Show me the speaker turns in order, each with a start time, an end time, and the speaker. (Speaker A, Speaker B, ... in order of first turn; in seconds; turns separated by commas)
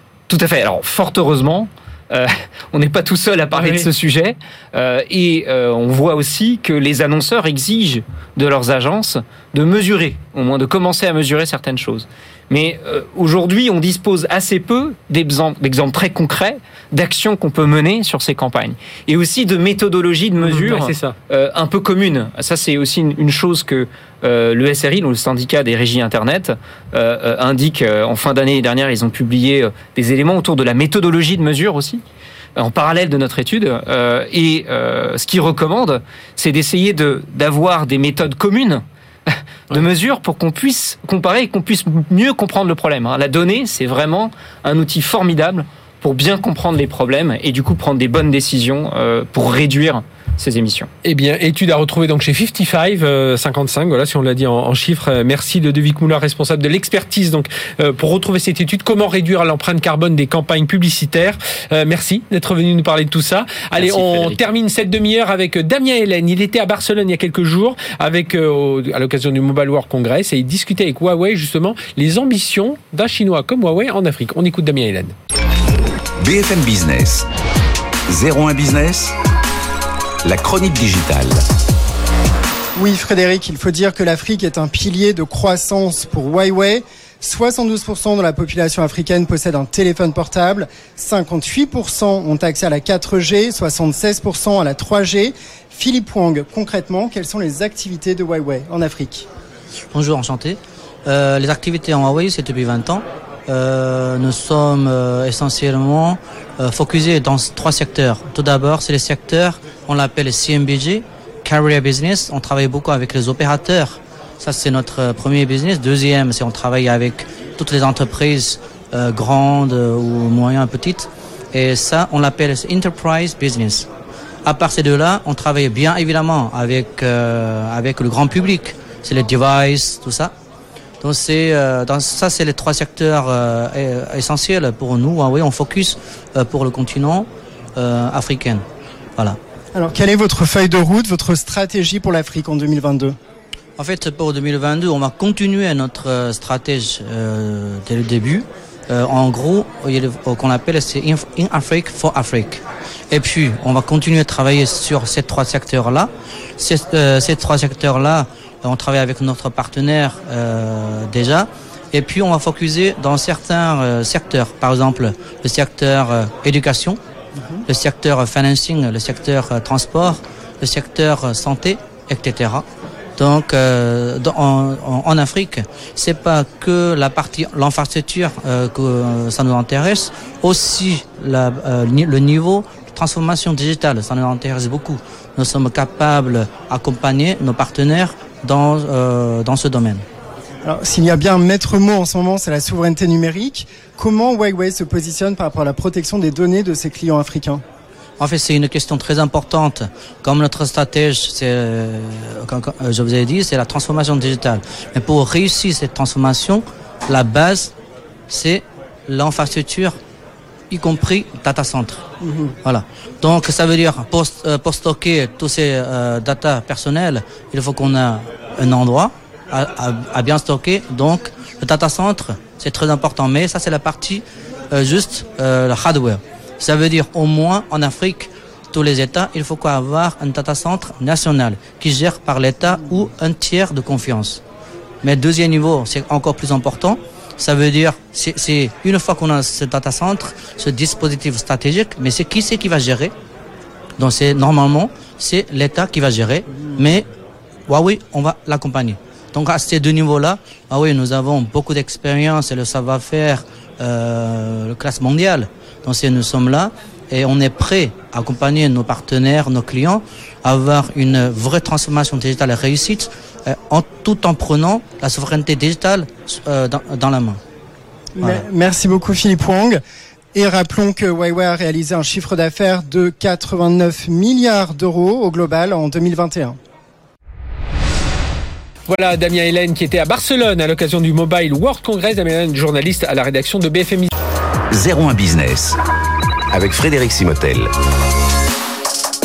Speaker A: 0.3-32.0, Speaker B: 3.5-3.9, Speaker B: 20.4-21.2, Speaker A: 32.6-50.9, Speaker B: 51.0-75.2, Speaker A: 63.8-64.4, Speaker C: 76.2-77.3, Speaker C: 78.1-79.1, Speaker C: 80.2-81.4, Speaker D: 82.8-99.3, Speaker E: 99.9-123.9, Speaker E: 124.5-130.3, Speaker E: 131.0-138.6, Speaker D: 139.8-143.2, Speaker E: 143.8-167.0, Speaker E: 167.7-172.7, Speaker E: 173.2-190.0, Speaker D: 190.6-197.6, Speaker E: 198.2-207.8, Speaker E: 208.3-210.0, Speaker E: 210.7-212.1, Speaker D: 212.2-212.5, Speaker E: 212.6-234.4, Speaker E: 235.0-243.1, Speaker E: 244.0-247.1, Speaker E: 247.7-267.4, Speaker D: 268.2-269.8, Speaker D: 270.4-276.6, Speaker B: 278.9-284.1, Speaker C: 284.7-285.8, Speaker C: 286.5-287.7